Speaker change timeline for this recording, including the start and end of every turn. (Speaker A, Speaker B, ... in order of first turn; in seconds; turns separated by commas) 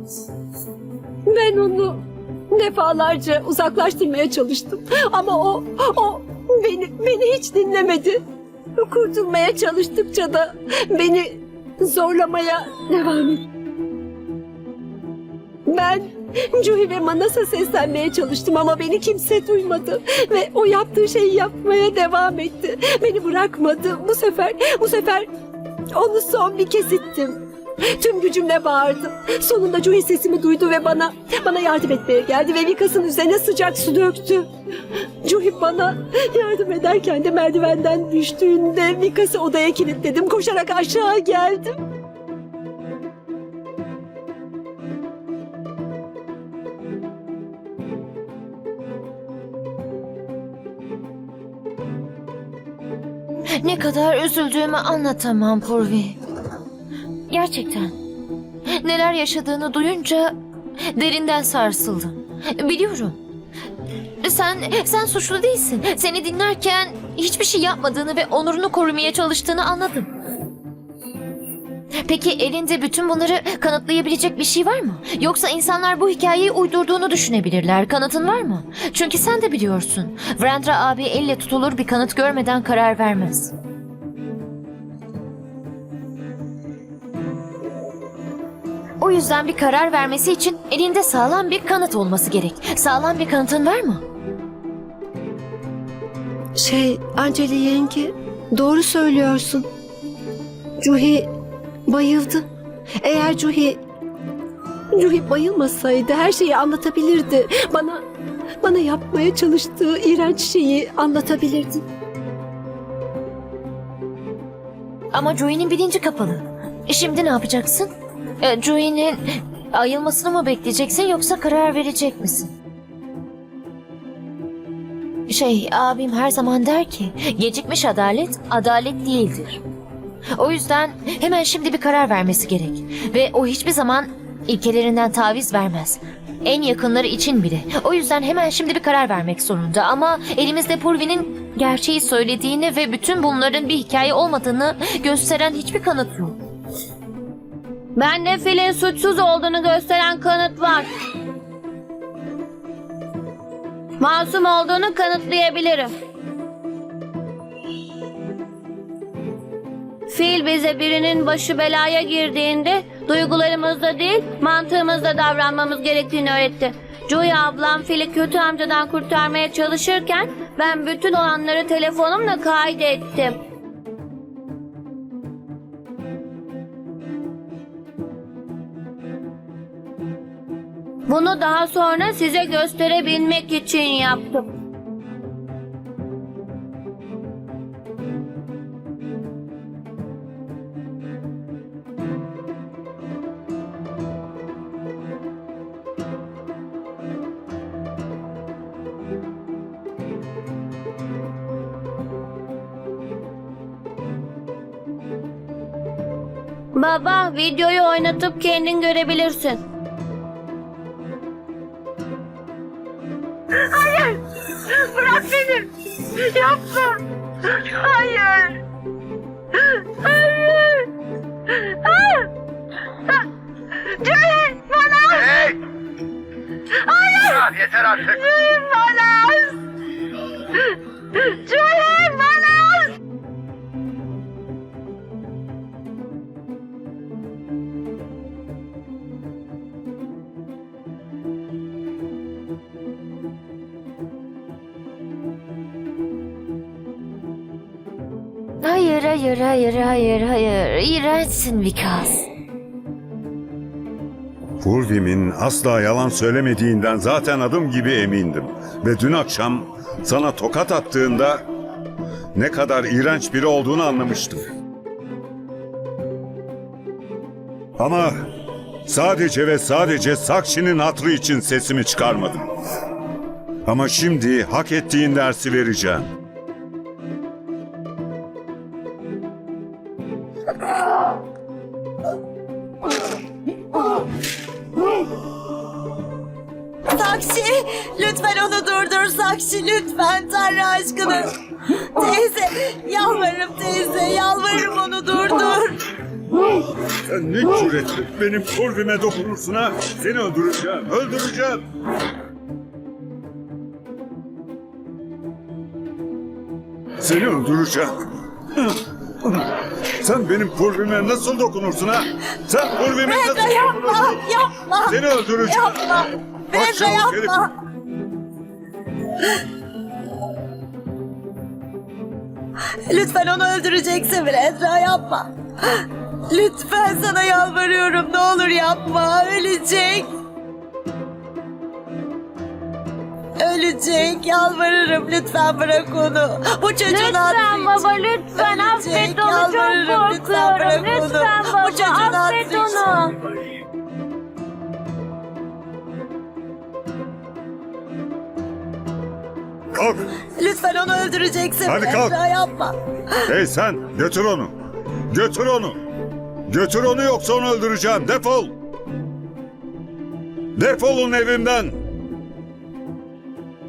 Speaker A: 1.3-2.0, Speaker A: 2.5-8.2, Speaker A: 8.8-13.4, Speaker A: 15.7-25.3, Speaker A: 25.9-27.4, Speaker A: 28.0-34.5, Speaker A: 35.2-41.7, Speaker B: 53.6-56.2, Speaker B: 57.3-58.0, Speaker B: 58.7-60.4, Speaker B: 60.9-63.2, Speaker B: 64.2-70.1, Speaker B: 72.0-83.5, Speaker B: 89.0-94.0, Speaker A: 96.6-99.7, Speaker A: 100.8-101.3, Speaker A: 101.9-102.4, Speaker A: 103.0-103.8, Speaker A: 104.9-108.0, Speaker A: 108.6-111.8, Speaker B: 115.1-117.9, Speaker B: 118.4-122.5, Speaker B: 125.3-129.6, Speaker B: 130.4-146.4, Speaker C: 148.0-150.9, Speaker C: 154.0-155.9, Speaker C: 160.1-173.4, Speaker C: 181.1-184.4, Speaker C: 206.8-209.6, Speaker A: 213.5-218.6, Speaker A: 219.6-220.9, Speaker A: 221.5-222.3, Speaker A: 223.8-225.4, Speaker A: 226.7-229.6, Speaker A: 231.1-232.9, Speaker B: 248.6-252.3, Speaker D: 254.6-261.4, Speaker D: 262.4-264.5, Speaker D: 267.8-268.1, Speaker D: 268.9-272.5, Speaker D: 273.7-276.1, Speaker E: 286.9-291.3, Speaker E: 292.0-295.8, Speaker D: 297.1-301.6, Speaker D: 307.0-307.9, Speaker D: 308.5-314.2, Speaker E: 313.0-317.5, Speaker D: 314.9-316.0, Speaker D: 316.5-317.4, Speaker E: 322.9-330.1, Speaker E: 333.4-342.9, Speaker C: 336.9-343.2, Speaker D: 349.7-350.0, Speaker E: 350.4-352.8, Speaker D: 351.6-352.2, Speaker D: 353.3-354.5, Speaker D: 355.1-355.8, Speaker D: 356.5-358.5, Speaker D: 360.6-361.8